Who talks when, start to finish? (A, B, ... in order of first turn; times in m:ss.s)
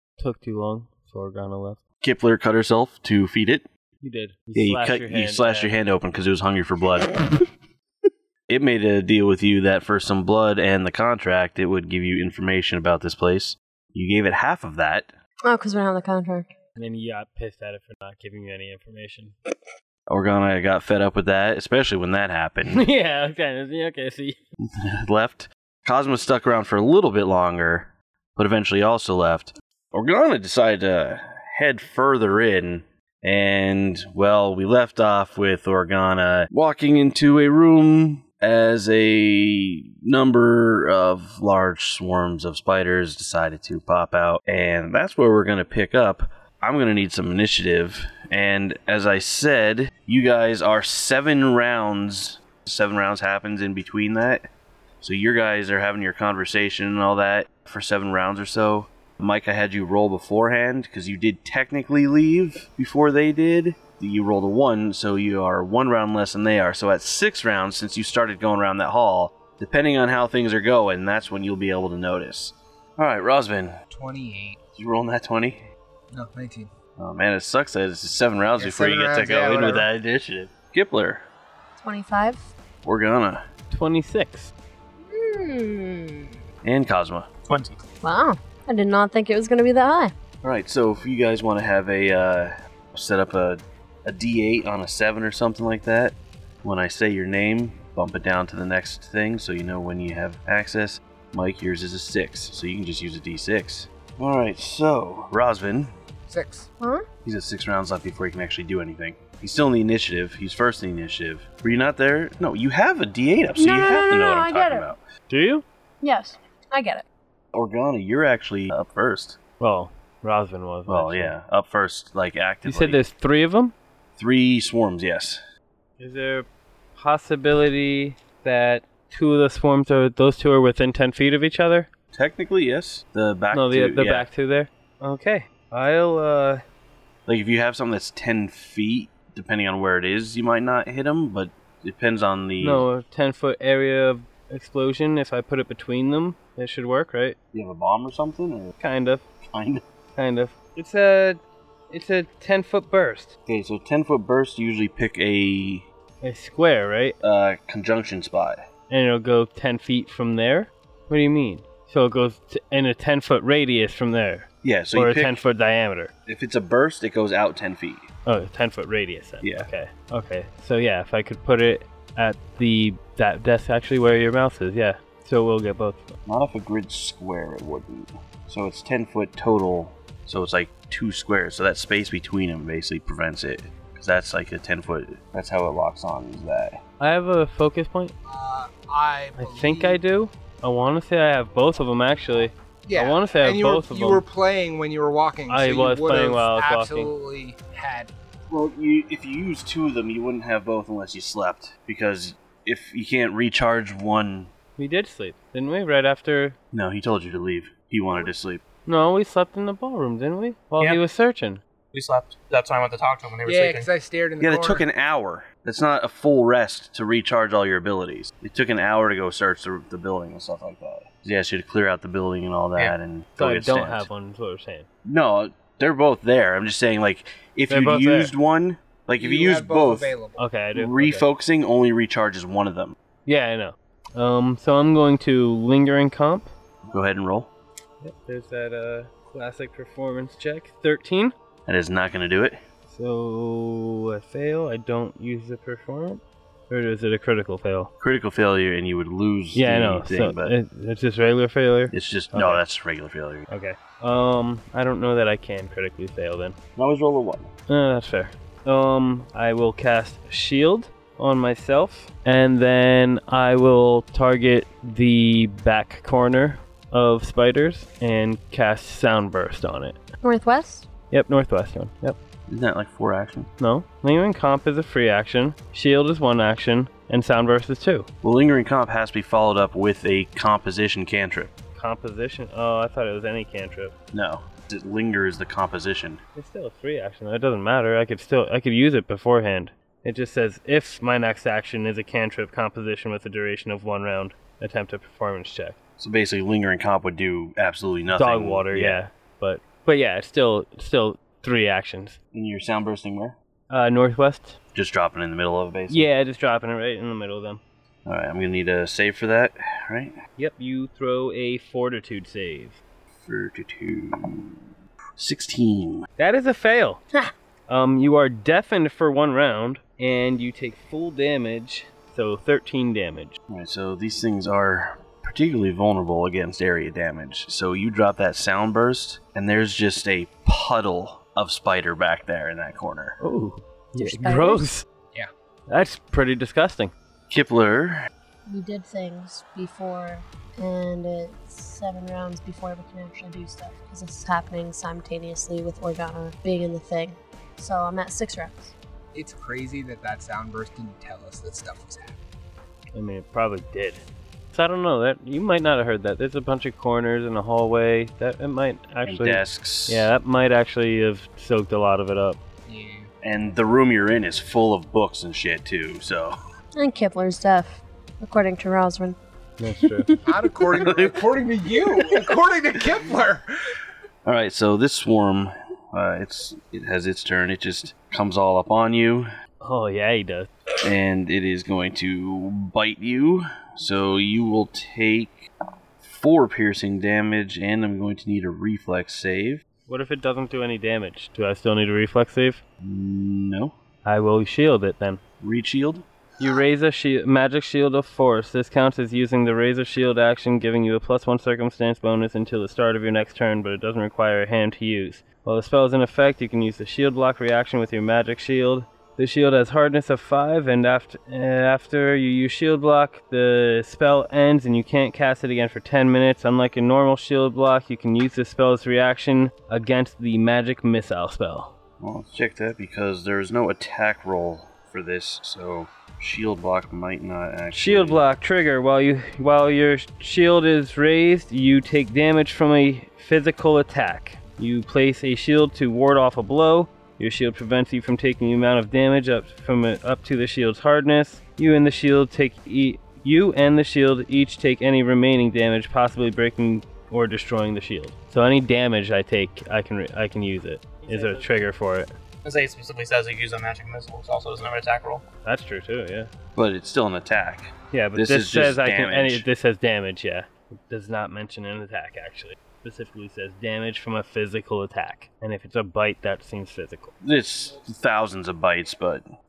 0:00.2-0:01.8 A
0:02.0-0:03.7 B
0:04.0-0:05.7 A
0:04.5-0:07.2 B
0:08.5-0:15.1 B
0:15.4-0:16.5 C
0:16.8-0:19.3 A
0:20.1-0:22.8 B
0:22.6-0:24.4 A
0:24.6-0:54.5 B
0:55.0-1:13.8 B
1:13.9-1:14.6 D
1:14.8-1:15.6 B
1:16.1-1:16.7 D
1:17.0-1:21.2 B
1:18.6-1:19.9 D
1:21.8-1:22.4 C
1:22.8-1:23.4 B
1:23.7-1:24.5 A
1:25.1-1:26.3 C
1:26.6-1:27.3 B
1:27.5-1:27.8 E
1:28.0-1:30.1 C
1:30.4-1:45.9 B
1:46.3-1:46.7 D
1:46.8-1:47.0 C
1:47.2-1:55.0 B
1:53.6-1:54.9 C
1:55.3-1:55.6 A
1:56.0-1:57.0 C
1:57.5-1:59.4 B
1:59.6-2:01.4 A
2:00.9-2:03.0 B
2:02.6-2:03.7 A
2:04.2-2:05.4 B
2:06.0-2:11.9 A
2:12.1-2:14.3 B
2:13.5-2:16.6 A
2:17.2-2:22.8 B
2:22.6-2:27.4 A
2:27.5-2:28.7 B
2:28.8-2:29.2 A
2:29.5-2:29.8 B
2:30.2-2:33.3 A
2:33.5-2:35.9 B
2:36.2-2:37.2 A
2:37.2-2:38.6 B
2:38.9-2:46.1 A
2:44.6-2:45.4 B
2:46.2-2:48.1 B
2:48.2-2:56.1 A
2:49.4-2:49.7 B
2:56.2-3:06.8 B
3:07.0-3:08.1 A
3:08.2-3:10.0 D
3:09.4-3:14.2 A
3:12.8-3:18.1 D
3:15.5-3:17.1 A
3:18.5-3:24.5 B
3:24.8-3:26.6 A
3:26.7-3:28.6 B
3:28.8-3:31.6 A
3:31.9-3:33.9 E
3:33.4-3:34.8 D
3:34.4-3:44.1 B
3:43.4-3:44.9 A
3:45.0-3:50.1 B
3:47.7-3:48.3 A
3:49.2-3:50.4 D
3:50.4-3:51.1 A
3:50.7-3:52.9 B
3:53.2-3:56.5 A
3:56.8-3:57.5 B
3:58.0-4:01.3 A
4:01.7-4:02.6 B
4:02.9-4:07.9 A
4:08.0-4:10.5 B
4:09.5-4:12.6 A
4:11.9-4:13.5 B
4:13.5-4:16.6 A
4:16.8-4:17.5 B
4:17.7-4:30.0 A
4:30.2-4:30.9 C
4:31.1-4:32.2 A
4:32.5-4:33.5 B
4:33.6-4:38.1 A
4:38.2-4:41.5 B
4:41.7-4:43.9 A
4:44.1-4:46.2 B
4:46.3-4:55.8 A
4:56.0-4:59.0 B
4:58.1-5:02.2 A
5:02.3-5:03.4 B
5:03.7-5:04.5 A
5:04.7-5:06.1 B
5:05.9-5:07.6 A
5:08.0-5:10.2 B
5:10.4-5:12.8 A
5:13.2-5:14.6 B
5:15.2-5:16.0 B
5:16.2-5:17.0 A
5:17.7-5:23.3 A
5:23.5-5:33.2 B
5:33.2-5:34.8 A
5:34.0-5:34.7 C
5:35.7-5:36.9 A
5:37.3-5:38.1 B
5:38.5-5:48.7 C
5:49.1-5:52.2 D
5:52.9-6:02.4 A
5:59.0-6:00.1 B
6:02.7-6:03.1 D
6:03.2-6:06.4 B
6:06.8-6:09.2 C
6:09.6-6:10.1 A
6:10.0-6:10.6 C
6:10.2-6:13.4 D
6:10.8-6:11.2 B
6:14.2-6:19.3 B
6:19.6-6:20.5 A
6:20.8-6:25.4 B
6:26.0-6:29.6 B
6:29.9-6:32.6 A
6:32.8-6:33.8 B
6:34.0-6:35.2 A
6:35.4-6:36.0 B
6:36.4-7:01.7 A
7:02.0-7:08.2 B
7:07.7-7:32.1 A
7:31.1-7:31.3 E
7:32.4-7:35.2 E
7:35.4-7:36.3 A
7:36.5-7:39.5 B
7:37.9-7:47.1 A
7:47.2-7:49.2 B